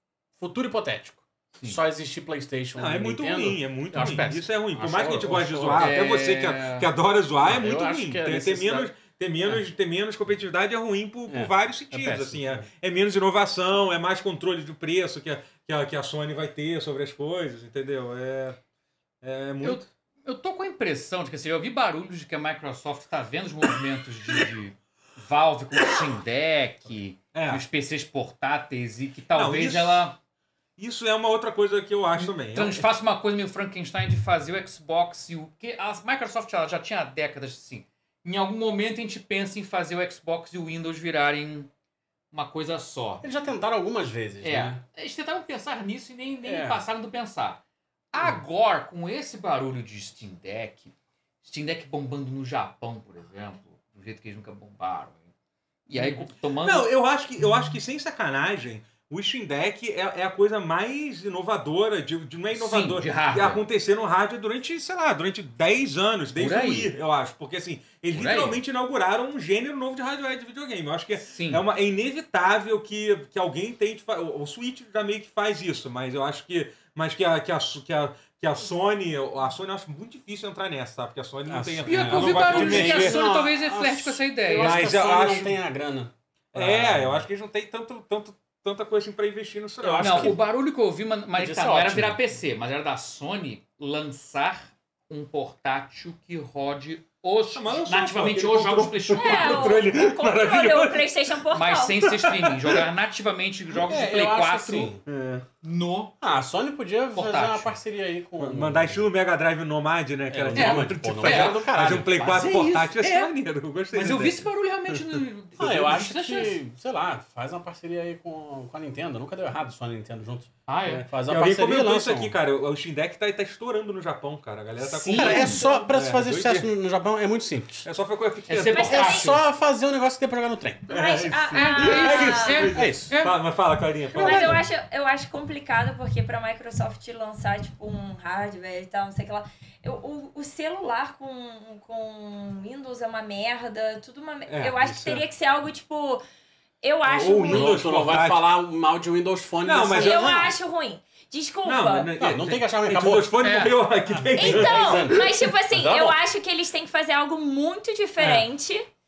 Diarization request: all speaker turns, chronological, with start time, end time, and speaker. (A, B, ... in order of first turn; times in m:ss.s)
0:00.4-0:06.0 A
0:02.8-0:18.6 B
0:04.0-0:04.3 C
0:05.8-0:06.9 C
0:07.4-0:08.9 A
0:11.3-0:12.6 A
0:19.2-0:19.9 B
0:19.6-0:30.2 C
0:27.3-0:27.6 B
0:29.3-0:30.1 B
0:30.8-0:32.9 B
0:32.2-0:41.7 C
0:42.3-0:43.3 C
0:43.2-0:44.8 A
0:44.4-0:47.6 C
0:46.4-0:46.8 A
0:48.1-0:55.2 C
0:55.9-0:56.9 C
0:56.0-1:23.2 B
1:02.5-1:03.6 C
1:06.4-1:06.9 C
1:08.1-1:08.6 C
1:11.2-1:11.6 C
1:21.5-1:27.3 A
1:21.8-1:24.9 C
1:24.6-1:25.6 B
1:26.5-1:30.4 B
1:29.8-1:30.4 A
1:30.0-1:39.8 C
1:31.4-1:32.2 A
1:37.5-1:41.1 B
1:39.2-1:42.0 D
1:41.5-1:45.0 C
1:42.0-1:42.8 B
1:43.8-1:45.0 A
1:45.1-1:45.5 B
1:45.6-1:46.1 C
1:46.2-1:49.1 A
1:47.1-1:47.7 C
1:48.4-1:55.0 B
1:50.3-1:52.2 A
1:50.5-1:53.3 C
1:53.9-1:56.6 C
1:55.6-2:02.4 A
2:00.7-2:01.1 C
2:01.2-2:06.7 B
2:04.8-2:05.7 C
2:05.1-2:07.9 A
2:07.8-2:09.0 B
2:08.5-2:09.4 C
2:08.7-2:09.4 D
2:08.9-2:10.9 A
2:10.9-2:12.7 D
2:10.9-2:14.6 B
2:11.5-2:13.4 C
2:12.1-2:13.1 A
2:14.1-2:14.6 A
2:14.2-2:26.2 D
2:24.5-2:25.2 B
2:26.8-2:27.8 D
2:27.1-2:28.5 B
2:27.4-2:30.5 A
2:29.6-2:30.5 B
2:29.9-2:32.1 D
2:31.6-2:35.2 B
2:32.2-2:33.4 A
2:33.4-2:33.8 C
2:34.3-2:36.2 A
2:34.3-2:38.8 D
2:38.2-2:38.5 B